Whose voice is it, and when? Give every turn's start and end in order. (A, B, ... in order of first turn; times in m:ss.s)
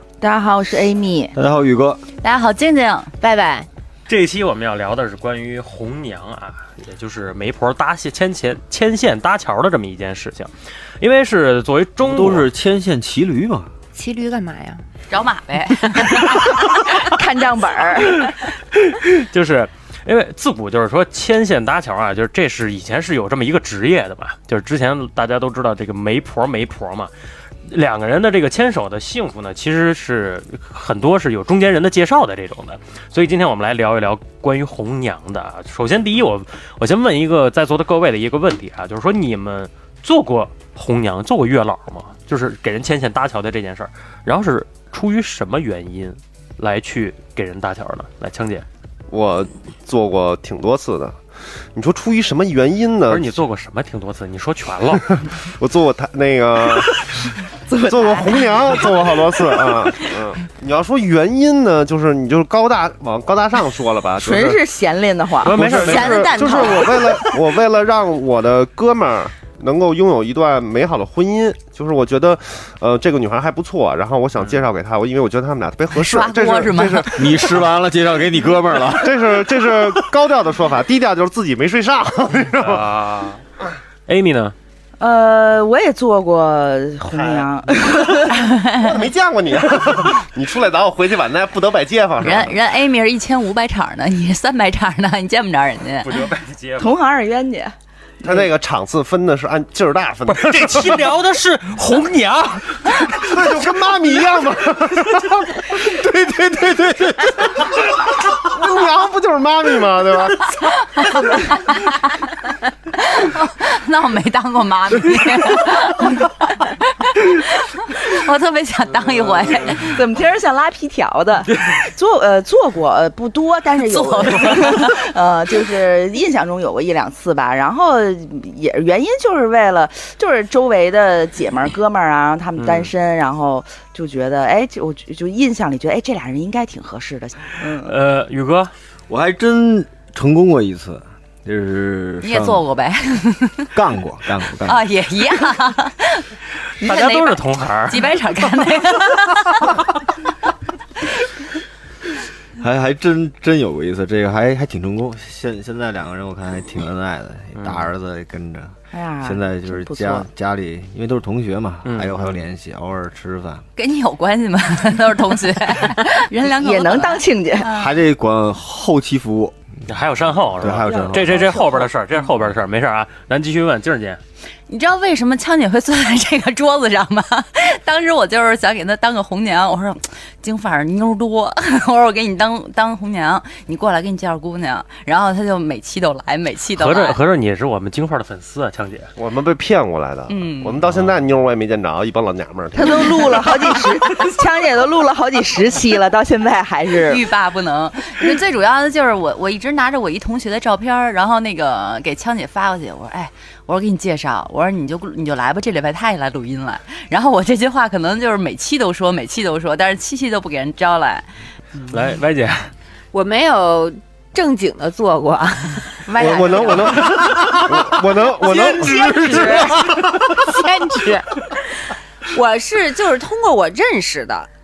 0:00.2-0:01.4 A
0:01.4-0:02.0 B
0:02.2-0:03.7 C
0:04.1-0:12.5 D
0:12.0-0:13.7 B
0:14.0-0:14.8 E
0:15.1-0:16.5 C
0:16.6-0:18.4 A
0:18.8-0:27.1 D
0:27.7-0:48.6 D
0:49.1-0:51.2 F
0:51.7-0:53.4 F
0:53.1-0:55.2 D
0:55.4-0:57.3 F
0:57.7-1:00.1 A
0:57.9-1:04.6 F
1:04.2-1:07.4 A
1:05.4-1:06.6 D
1:05.5-1:17.5 F
1:05.9-1:06.9 E
1:14.4-1:14.6 D
1:16.0-1:17.3 C
1:17.1-1:20.1 B
1:18.9-1:22.9 F
1:22.6-1:23.4 D
1:24.1-1:24.6 D
1:25.0-1:28.3 A
1:27.1-1:32.6 F
1:32.2-1:36.1 C
1:36.0-1:36.9 D
1:36.8-1:38.5 A
1:38.2-1:41.1 F
1:40.3-1:43.3 D
1:43.2-1:50.7 F
1:51.0-1:52.2 C
1:52.9-2:00.0 C
1:59.7-2:18.0 A
2:03.9-2:05.0 C
2:12.6-2:12.9 D
2:17.8-2:18.7 D
2:19.1-2:22.6 B
2:22.2-2:23.7 C
2:23.7-2:24.8 B
2:24.6-2:26.3 C
2:26.8-2:28.2 D
2:26.8-2:29.8 C
2:32.6-2:43.6 B
2:37.5-2:37.9 D
2:38.9-2:40.3 A
2:41.8-2:42.4 D
2:43.8-2:47.9 C
2:46.5-2:47.7 A
2:47.7-2:49.6 B
2:49.9-2:54.2 D
2:50.6-2:51.5 B
2:50.8-2:51.9 A
2:54.7-3:07.2 C
3:06.8-3:09.1 D
3:09.2-3:13.6 F
3:10.3-3:10.8 C
3:10.8-3:11.2 D
3:12.8-3:17.2 A
3:17.1-3:31.3 C
3:31.9-3:32.7 D
3:33.1-3:35.9 E
3:36.1-3:37.1 C
3:36.2-3:39.8 F
3:38.4-3:41.3 E
3:42.3-3:44.5 E